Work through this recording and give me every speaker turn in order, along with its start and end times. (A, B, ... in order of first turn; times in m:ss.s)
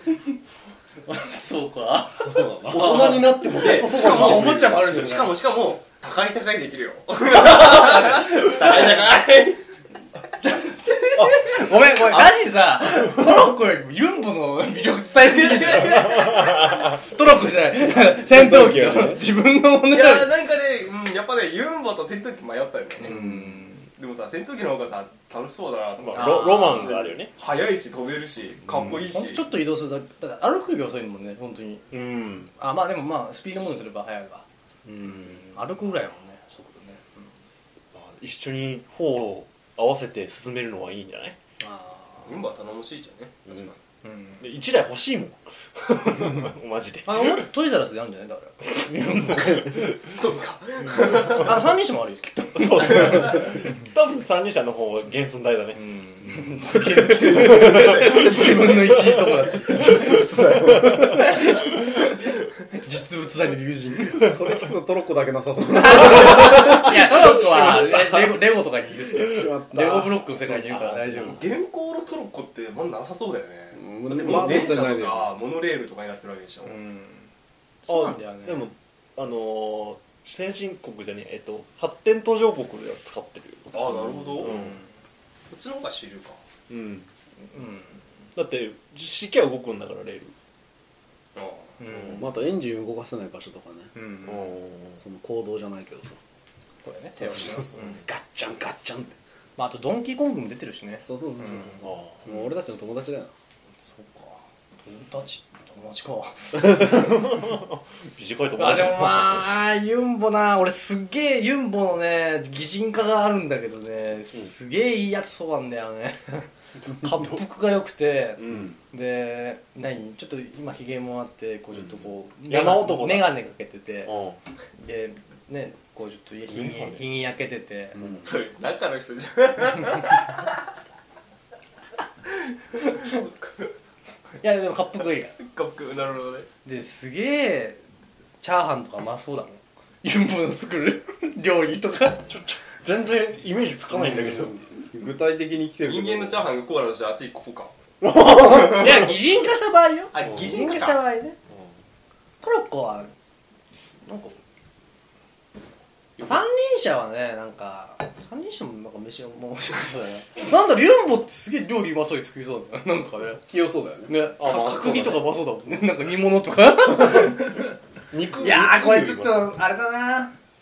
0:01.1-0:02.5 A
0:02.1-0:05.3 B
0:02.7-0:05.0 C
0:02.8-0:09.7 D
0:03.9-0:05.2 A
0:07.4-0:09.1 A
0:10.4-0:20.3 A
0:15.2-0:16.5 D
0:16.1-0:16.9 C
0:17.8-0:19.2 B
0:19.9-0:23.1 D
0:23.0-0:23.9 A
0:23.0-0:23.6 B
0:24.0-0:29.4 D
0:26.0-0:27.3 C
0:26.1-0:27.0 A
0:28.7-0:29.0 C
0:29.1-0:31.8 A
0:31.9-0:32.5 C
0:32.6-0:37.3 A
0:37.9-0:41.4 C
0:41.6-0:42.3 A
0:42.2-0:43.8 D
0:44.0-0:44.4 A
0:44.4-0:47.4 C
0:47.0-0:49.9 A
0:50.0-0:51.6 D
0:51.0-0:53.5 A
0:52.6-0:55.8 C
0:55.8-1:02.2 A
0:57.2-0:59.1 C
0:59.8-1:01.2 B
0:59.9-1:01.2 C
1:02.7-1:04.3 A
1:04.2-1:06.9 B
1:05.7-1:11.5 A
1:06.2-1:08.4 C
1:09.1-1:10.2 B
1:10.5-1:11.3 C
1:11.3-1:16.8 D
1:13.7-1:15.3 B
1:16.6-1:17.3 A
1:17.9-1:18.7 A
1:17.9-1:23.7 C
1:23.7-1:24.6 D
1:24.4-1:24.8 C
1:24.5-1:24.8 A
1:25.5-1:26.4 D
1:26.7-1:27.1 C
1:27.5-1:28.0 A
1:28.4-1:30.3 C
1:31.4-1:31.7 D
1:31.8-1:32.2 A
1:32.1-1:33.9 B
1:34.0-1:34.5 A
1:34.2-1:35.0 C
1:35.0-1:36.2 B
1:36.8-1:38.0 A
1:37.1-1:39.2 B
1:39.6-1:41.7 A
1:41.0-1:43.3 B
1:41.8-1:42.2 C
1:43.9-1:47.2 A
1:46.6-1:49.5 C
1:48.6-2:04.1 A
1:58.4-1:58.8 C
2:02.5-2:03.4 C
2:04.0-2:04.4 C
2:04.8-2:08.0 A
2:06.5-2:07.1 C
2:08.2-2:10.5 D
2:13.0-2:13.7 D
2:14.4-2:15.4 A
2:15.4-2:16.5 D
2:16.6-2:17.8 A
2:18.4-2:22.3 A
2:22.3-2:24.6 C
2:23.9-2:26.4 B
2:25.8-2:27.7 D
2:28.0-2:29.2 C
2:28.4-2:31.4 A
2:30.1-2:31.0 D
2:32.4-2:33.1 A
2:34.0-2:34.4 A
2:36.2-2:43.4 A
2:43.5-2:44.1 B
2:44.1-2:47.8 A
2:44.4-2:45.3 C
2:48.1-2:49.5 C
2:48.4-2:50.3 A